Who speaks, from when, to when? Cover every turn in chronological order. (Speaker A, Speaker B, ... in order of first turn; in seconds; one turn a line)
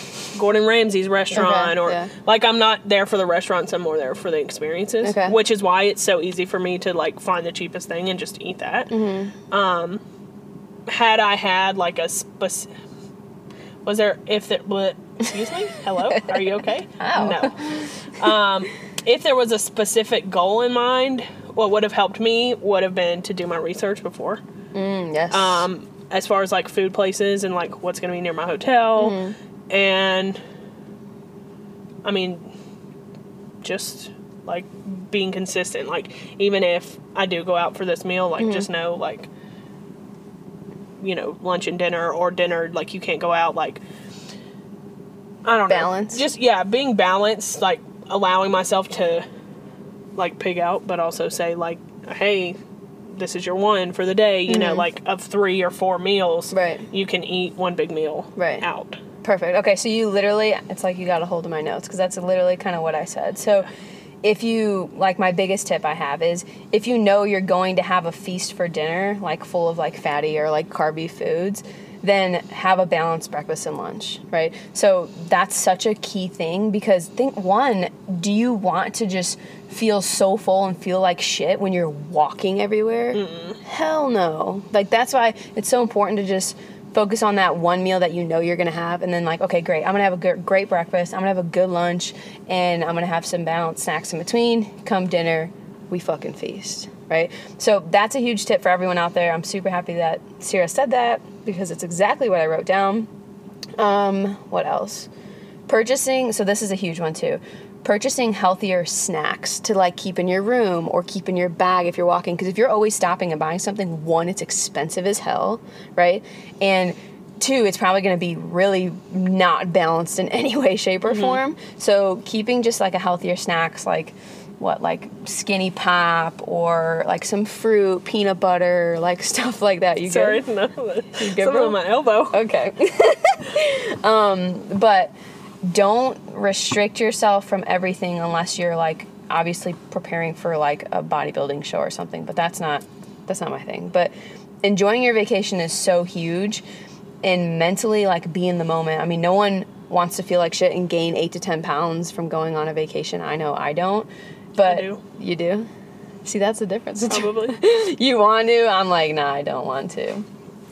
Speaker A: 0.3-9.0
Speaker B: 1.3-2.1
Speaker B: 5.0-5.4
Speaker B: 8.9-9.3
Speaker A: 9.5-10.0
Speaker A: 10.9-12.7
Speaker A: 13.8-24.4
Speaker B: 17.0-17.9
Speaker B: 24.7-25.7
Speaker A: 25.3-30.4
Speaker B: 29.0-29.3
Speaker A: 32.0-32.4
Speaker A: 33.6-39.3
Speaker B: 38.4-38.7
Speaker A: 41.0-43.8
Speaker A: 45.4-49.2
Speaker B: 45.7-46.2
Speaker A: 50.1-52.5
Speaker A: 53.1-59.0
Speaker B: 54.5-54.9
Speaker B: 56.5-56.9
Speaker B: 58.4-58.6
Speaker B: 59.2-63.7
Speaker B: 64.2-103.1
Speaker A: 83.1-83.6
Speaker B: 103.8-105.1
Speaker B: 105.7-130.4
Speaker A: 121.1-121.4
Speaker A: 130.1-132.4
Speaker B: 131.2-131.8
Speaker B: 132.3-135.1
Speaker B: 135.6-144.1
Speaker B: 144.6-146.6
Speaker B: 147.2-155.7
Speaker A: 154.6-155.0
Speaker B: 156.2-160.2
Speaker A: 157.1-157.6